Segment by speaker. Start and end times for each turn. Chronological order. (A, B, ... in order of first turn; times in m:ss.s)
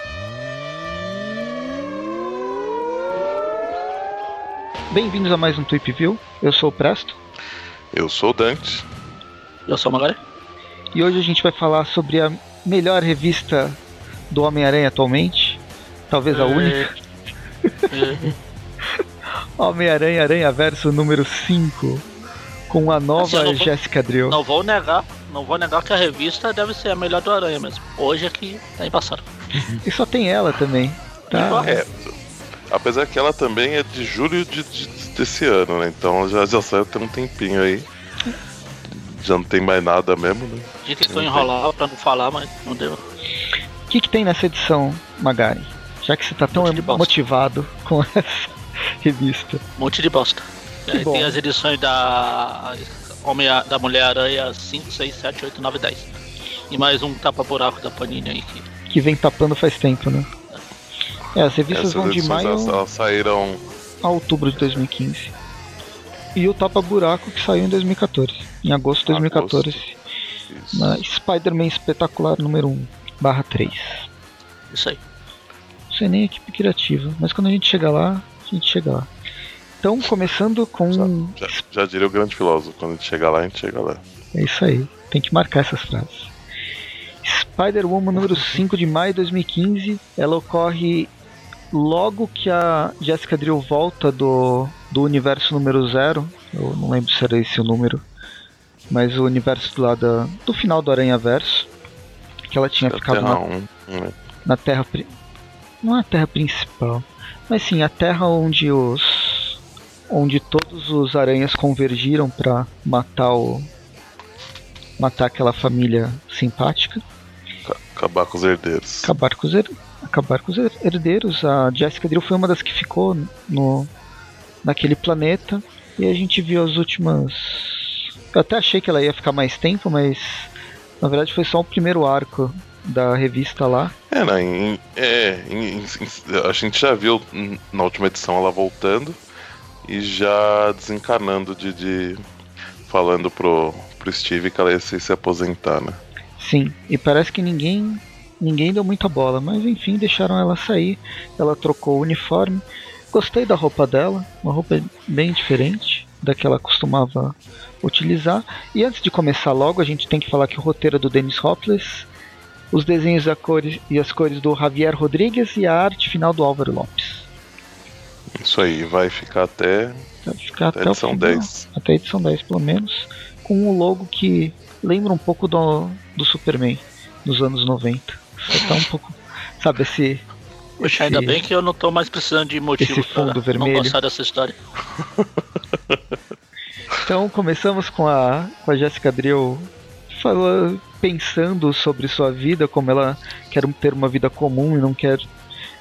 0:04.9-0:07.2 A
0:07.9-0:08.8 B
0:09.7-0:10.2 C
0:10.9-0:16.9 A
0:16.3-0:16.9 C
0:17.9-0:18.4 C
0:19.6-0:22.0 A
0:22.7-0:24.4 A
0:23.2-0:23.7 C
0:24.3-0:29.2 C
0:29.8-0:31.8 A
0:31.3-0:31.8 C
0:31.5-0:32.1 B
0:32.7-0:37.9 B
0:38.9-0:41.5 B
0:40.8-0:43.0 C
0:43.9-0:49.6 A
0:46.5-0:47.1 C
0:49.8-0:56.1 C
0:50.9-0:51.4 A
0:56.7-0:58.7 C
0:58.9-1:00.3 A
1:01.4-1:02.8 A
1:01.7-1:03.6 B
1:04.0-1:05.3 A
1:06.4-1:10.0 A
1:09.1-1:09.8 B
1:10.5-1:11.0 B
1:10.7-1:14.0 A
1:14.7-1:15.0 C
1:15.9-1:19.1 A
1:19.8-1:21.6 A
1:20.9-1:24.0 B
1:24.3-1:26.3 A
1:27.2-1:31.1 A
1:31.7-1:38.0 A
1:38.9-1:41.7 A
1:42.5-1:43.4 A
1:42.9-1:44.2 B
1:44.4-1:45.1 A
1:45.8-1:49.6 A
1:50.1-1:53.7 A
1:55.0-1:57.0 A
1:57.6-1:59.1 B
1:59.0-2:03.9 A
2:04.6-2:13.9 A
2:14.1-2:19.2 B
2:19.8-2:22.2 B
2:22.9-2:26.0 B
2:26.4-2:42.1 A
2:42.7-2:47.3 A
2:48.4-2:50.1 B
2:50.3-3:00.2 A
2:50.7-2:51.7 B
3:00.8-3:01.4 A
3:00.8-3:04.6 C
3:02.8-3:04.0 A
3:07.0-3:15.3 A